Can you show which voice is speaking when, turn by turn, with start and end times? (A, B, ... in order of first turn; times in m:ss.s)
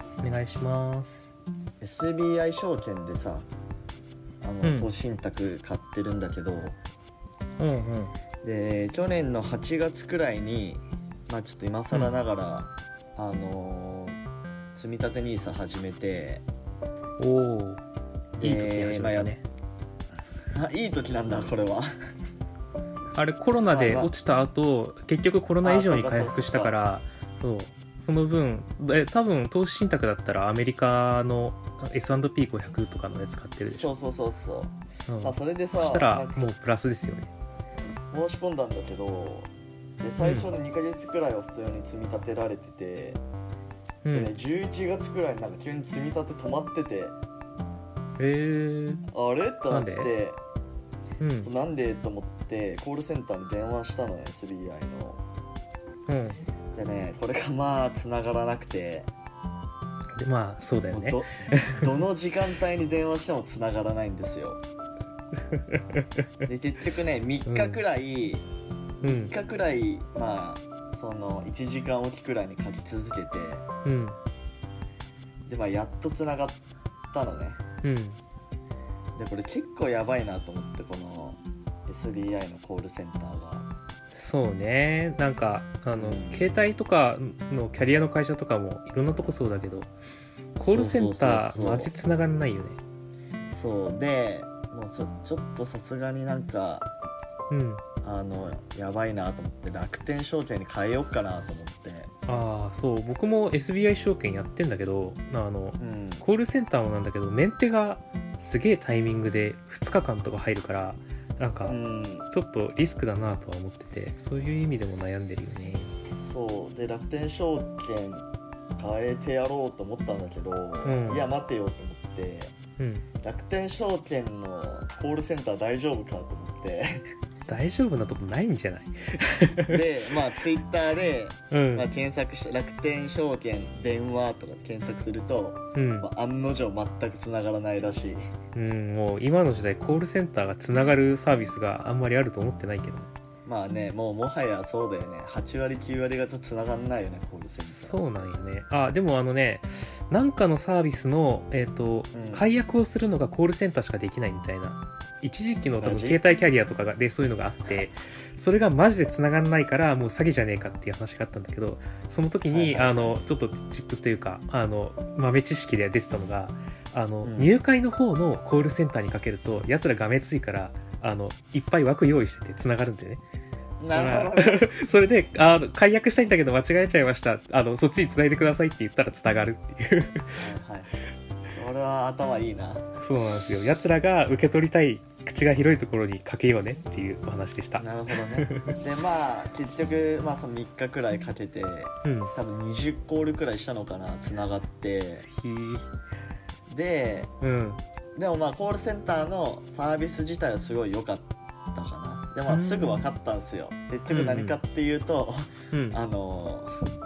0:00.2-0:01.3 A
0:01.8-0:03.5 B
0:04.4-0:06.8 B
0:04.6-0:04.9 A
0:07.6-0:08.1 A
0:08.4-0:14.2 B
0:14.8-0:16.4 B
0:17.2-0:17.8 A
0:18.4-0:19.3 B
0:18.4-0:19.4 A
0:20.5-0:21.9 B
0:23.2-0:33.9 A
0:23.7-0:24.1 B
0:25.6-0:26.7 B
0:33.7-0:36.5 B
0:35.1-0:37.3 A
0:38.1-0:43.2 B
0:40.2-0:40.5 A
0:44.0-0:44.3 A
0:44.1-0:47.2 B
0:48.2-0:49.0 A
0:49.1-0:50.4 B
0:49.7-0:50.1 A
0:51.2-0:51.5 A
0:51.4-0:55.2 B
0:56.1-0:56.4 A
0:56.8-0:59.1 B
1:00.2-1:01.9 A
1:00.9-1:04.6 B
1:05.5-1:06.0 A
1:06.5-1:08.5 B
1:07.4-1:07.8 A
1:09.0-1:13.7 B
1:09.0-1:09.3 A
1:13.8-1:14.2 A
1:15.5-1:16.6 B
1:17.1-1:17.6 B
1:17.8-1:18.2 A
1:19.2-1:23.7 B
1:24.1-1:29.9 A
1:26.0-1:26.4 B
1:30.6-1:31.9 B
1:30.6-1:32.8 A
1:33.5-1:36.9 B
1:37.5-1:37.8 A
1:38.0-1:42.1 B
1:42.3-1:51.8 A
1:45.8-1:46.2 B
1:51.7-1:52.3 B
1:52.3-1:56.0 A
1:56.1-2:02.6 B
2:00.8-2:01.3 A
2:02.8-2:03.0 A
2:03.2-2:07.0 B
2:07.5-2:09.8 A
2:09.7-2:18.3 B
2:11.5-2:11.9 A
2:15.8-2:16.1 A
2:18.6-2:23.1 A
2:23.5-2:28.0 B
2:27.7-2:53.2 A
2:32.1-2:32.5 B
2:35.8-2:36.2 B
2:42.5-2:43.2 B
2:47.2-2:47.5 B
2:53.8-2:54.7 B
2:53.9-3:00.5 A
3:00.4-3:00.9 B
3:01.5-3:02.9 B
3:03.0-3:08.8 A
3:07.8-3:15.3 B
3:12.0-3:12.3 A
3:15.3-3:15.9 A
3:16.7-3:17.3 B
3:17.4-3:17.8 A
3:18.2-3:26.7 B
3:22.5-3:23.0 A
3:24.1-3:24.6 A
3:25.7-3:26.0 A